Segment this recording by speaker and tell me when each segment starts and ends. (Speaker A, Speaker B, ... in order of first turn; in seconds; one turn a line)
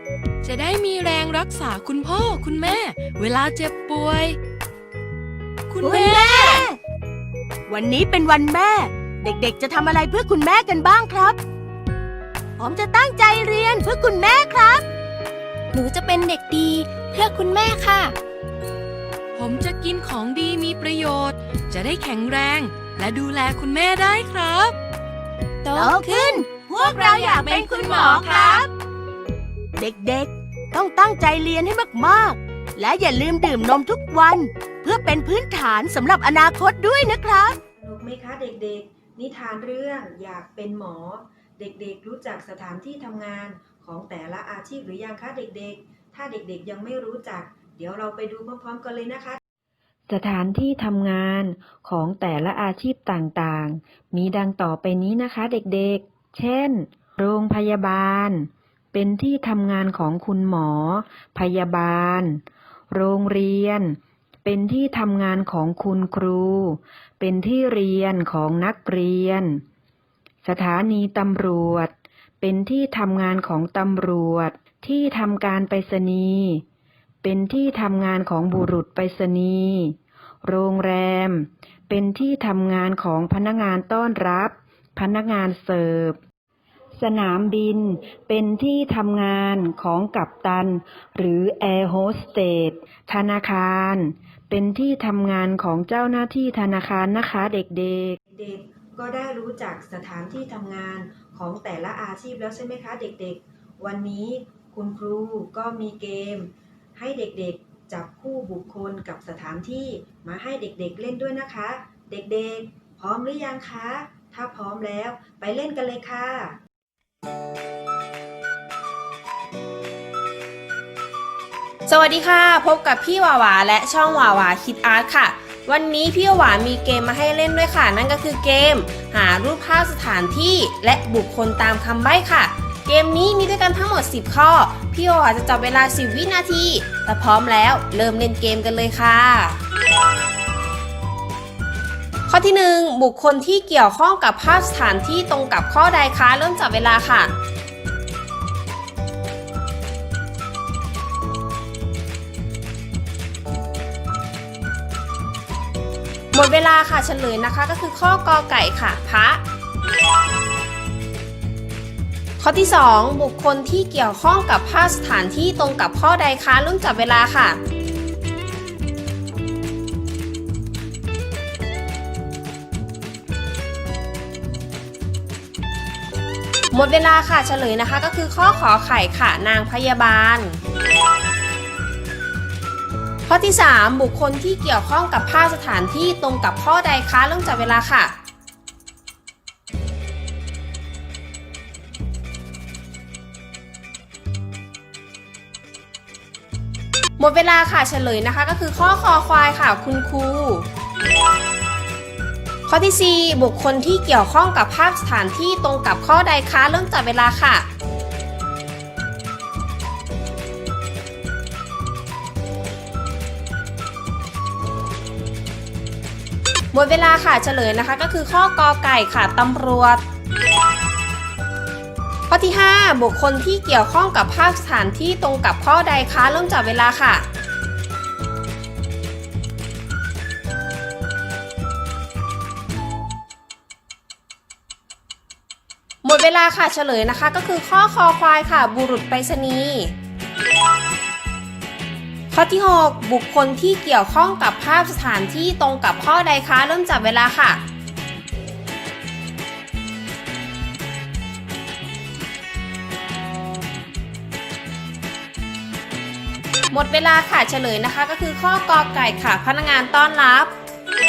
Speaker A: 0.4-4.4
Speaker A: 5.7-6.7
Speaker B: 5.8-6.8
Speaker B: 7.7-11.4
Speaker B: 12.6-14.8
Speaker C: 15.7-18.1
Speaker A: 19.4-24.8
Speaker C: 25.6-26.4
Speaker B: 25.7-28.7
Speaker A: 26.9-28.6
Speaker B: 29.8-37.6
Speaker D: 37.8-49.4
Speaker D: 50.1-69.6
Speaker D: 70.4-76.6
Speaker D: 77.2-86.2
Speaker D: 87.0-116.6
Speaker E: 121.9-139.6
Speaker E: 142.3-147.3
Speaker E: 156.3-159.4
Speaker E: 162.4-167.6
Speaker E: 176.7-180.6
Speaker E: 183.3-188.1
Speaker E: 197.2-200.7
Speaker E: 202.7-207.7
Speaker E: 216.7-220.0
Speaker E: 222.3-227.2
Speaker E: 236.0-239.9
Speaker E: 242.3-247.6
Speaker E: 256.7-260.5